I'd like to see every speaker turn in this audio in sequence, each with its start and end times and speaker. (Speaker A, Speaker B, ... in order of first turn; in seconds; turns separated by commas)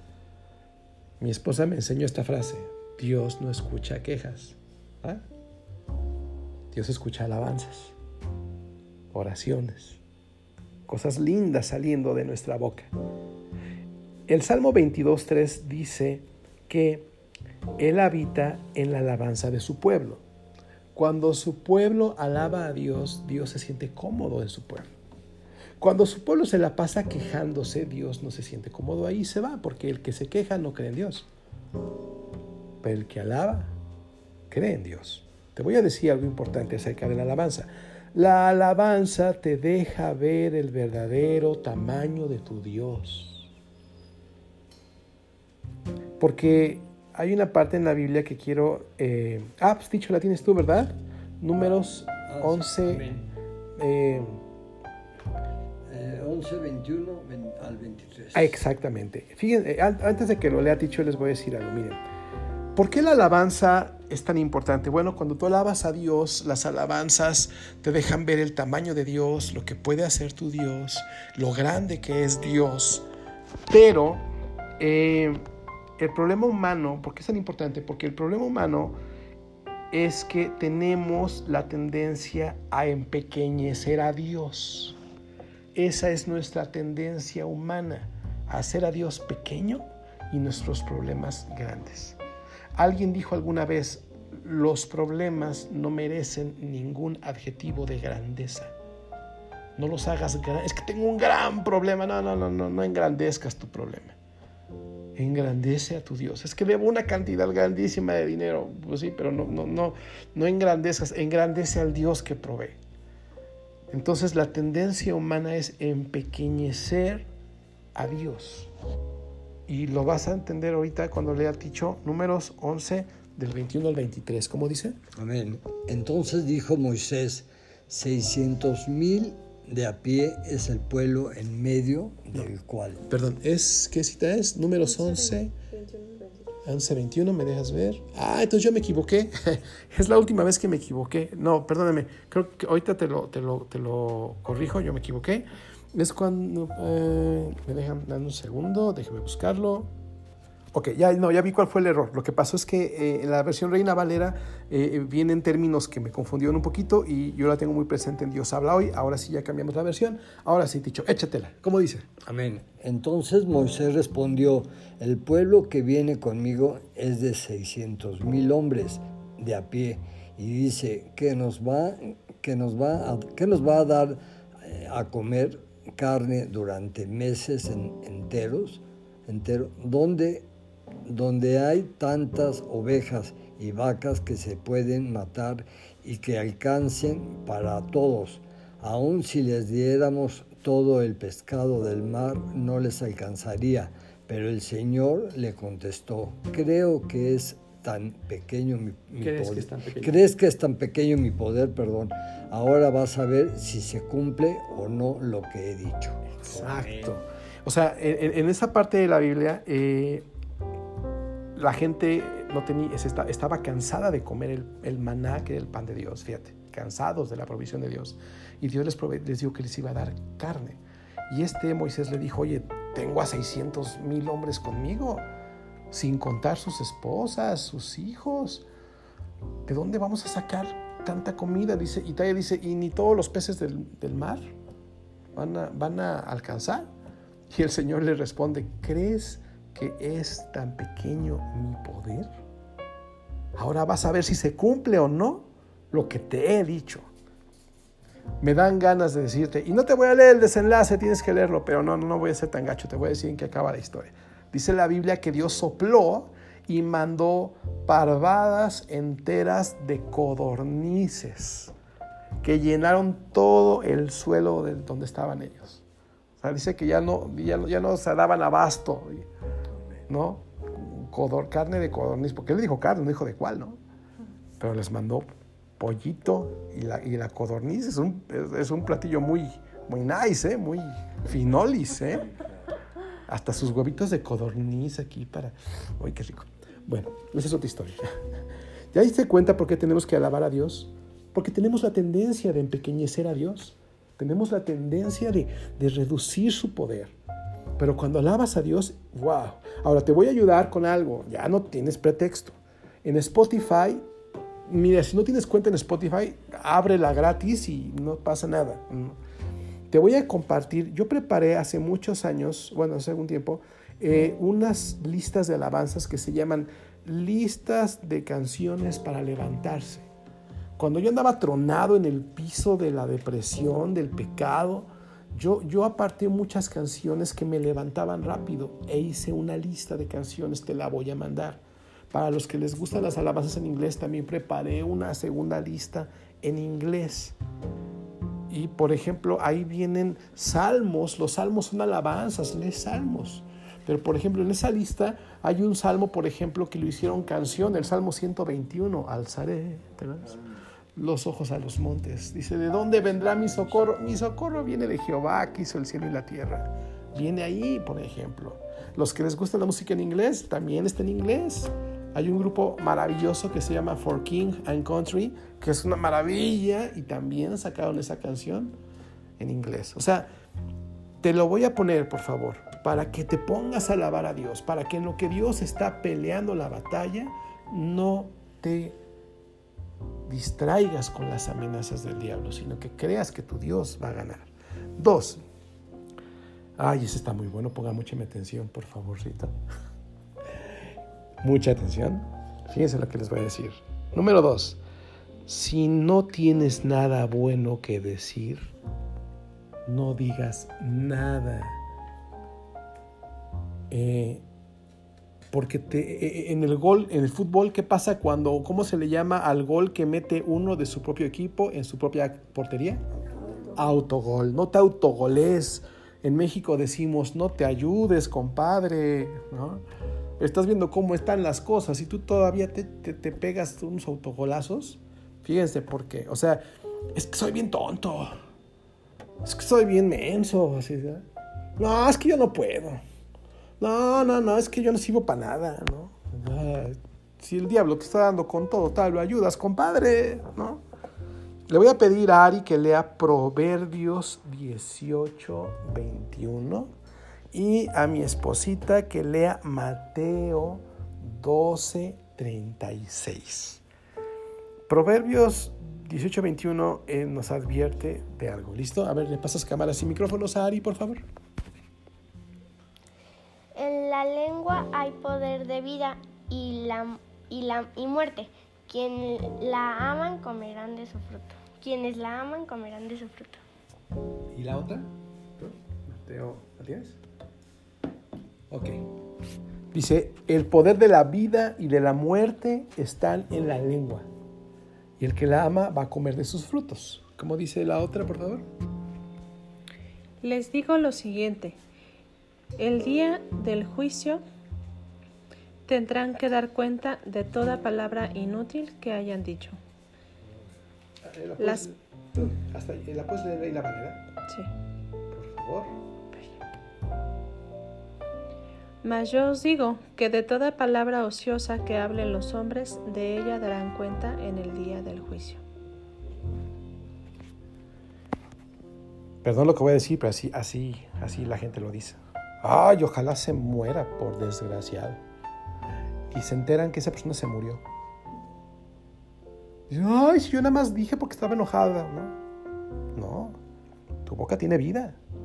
Speaker A: 1.2-5.2, Speaker A: 6.7-8.0, Speaker A: 9.1-10.0, Speaker A: 10.9-12.9, Speaker A: 14.3-17.1, Speaker A: 17.8-20.2, Speaker A: 20.9-24.9, Speaker A: 25.8-31.3, Speaker A: 32.8-33.7, Speaker A: 34.5-43.5, Speaker A: 46.2-53.1, Speaker B: 52.3-53.2, Speaker A: 53.8-54.4, Speaker B: 55.9-58.6, Speaker A: 58.3-62.0, Speaker A: 62.8-73.0, Speaker A: 73.7-74.2, Speaker A: 74.8-75.4, Speaker A: 76.0-79.0, Speaker A: 79.9-85.0, Speaker A: 85.8-92.2, Speaker A: 92.8-98.7, Speaker A: 99.8-104.2, Speaker A: 105.2-112.8, Speaker A: 113.9-117.3, Speaker A: 118.0-118.7, Speaker A: 119.7-125.0, Speaker B: 125.2-133.0, Speaker A: 133.1-135.5, Speaker C: 134.9-136.5, Speaker A: 136.7-149.9, Speaker A: 150.7-162.1, Speaker B: 162.3-180.5, Speaker B: 181.1-207.2, Speaker A: 199.2-200.2, Speaker A: 206.4-210.3, Speaker A: 211.6-225.2, Speaker A: 225.9-228.7, Speaker A: 229.7-234.5, Speaker A: 235.3-236.9, Speaker A: 237.5-242.3, Speaker A: 243.6-247.1, Speaker A: 248.4-261.7, Speaker A: 262.4-265.8, Speaker A: 266.4-269.3, Speaker A: 270.1-273.8, Speaker A: 274.6-282.3, Speaker A: 283.3-288.1, Speaker A: 288.9-297.1, Speaker A: 297.8-304.1, Speaker A: 304.7-309.2, Speaker A: 309.9-320.1, Speaker A: 320.8-337.4, Speaker A: 338.5-350.4, Speaker A: 351.0-368.8, Speaker A: 369.4-370.3, Speaker A: 371.2-379.0, Speaker A: 380.3-385.4, Speaker A: 386.8-389.5, Speaker A: 391.4-394.8, Speaker A: 395.5-398.7, Speaker A: 399.9-401.8, Speaker A: 403.9-404.4, Speaker A: 405.5-413.1, Speaker A: 413.7-419.8, Speaker A: 420.4-426.6, Speaker A: 427.1-428.4, Speaker A: 429.4-431.2, Speaker A: 431.8-433.0, Speaker A: 433.8-440.8, Speaker A: 441.7-446.9, Speaker A: 447.5-453.8, Speaker A: 454.9-461.2, Speaker D: 463.7-473.6, Speaker A: 474.5-477.2, Speaker A: 478.7-479.0, Speaker A: 479.9-484.3, Speaker A: 485.2-488.7, Speaker C: 490.4-491.8, Speaker C: 492.8-494.4, Speaker C: 495.9-499.8, Speaker A: 501.2-504.2, Speaker C: 501.6-501.9, Speaker A: 505.3-505.9, Speaker C: 509.0-515.6, Speaker A: 519.4-525.2, Speaker A: 526.3-527.8, Speaker A: 529.9-532.4, Speaker A: 533.1-533.6, Speaker A: 534.2-535.2